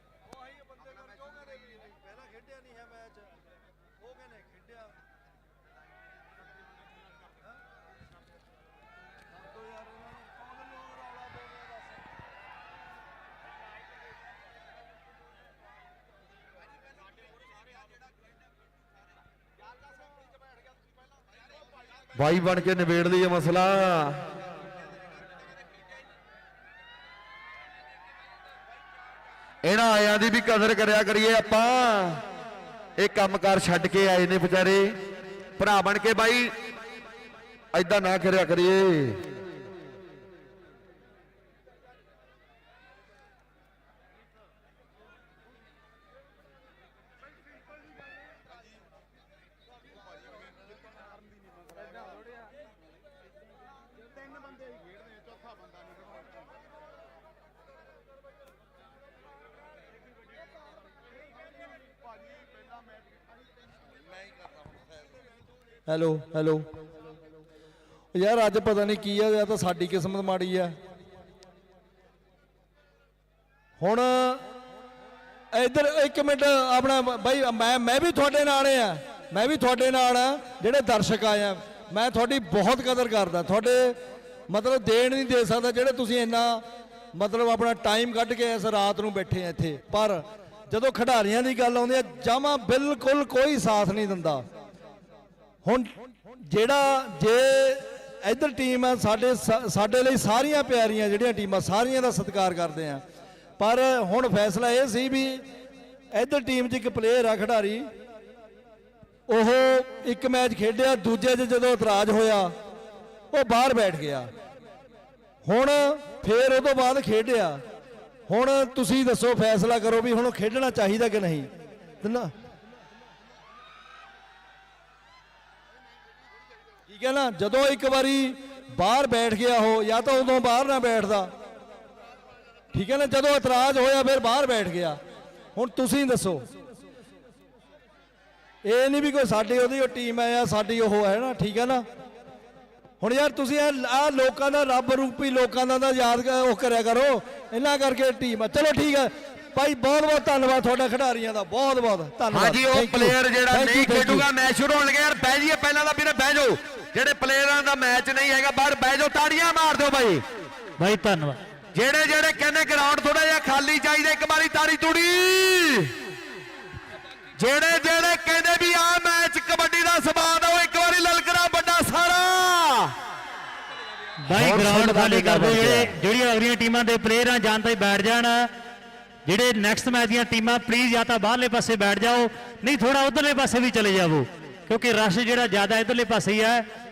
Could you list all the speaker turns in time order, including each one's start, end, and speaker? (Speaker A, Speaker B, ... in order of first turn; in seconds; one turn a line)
Speaker A: 1.4-3.1
Speaker B: 22.1-24.2
Speaker B: 29.6-32.2
Speaker B: 33.0-35.0
Speaker B: 35.6-36.5
Speaker B: 37.7-39.2
Speaker A: 65.9-66.7
Speaker A: 68.1-70.8
Speaker A: 73.8-74.4
Speaker A: 75.5-84.0
Speaker A: 84.5-86.6
Speaker A: 87.1-94.4
Speaker A: 95.6-103.0
Speaker A: 103.6-105.4
Speaker A: 106.1-107.9
Speaker A: 109.3-112.5
Speaker A: 113.3-114.3
Speaker A: 115.4-117.6
Speaker A: 118.3-121.5
Speaker A: 122.0-122.3
Speaker A: 126.9-131.3
Speaker A: 132.7-135.0
Speaker A: 135.6-136.5
Speaker A: 138.6-141.8
Speaker A: 143.0-154.3
Speaker B: 152.3-160.2
Speaker C: 160.8-161.4
Speaker B: 161.7-165.9
Speaker B: 167.4-172.9
Speaker C: 174.2-178.5
Speaker B: 174.3-175.9
Speaker C: 179.2-186.7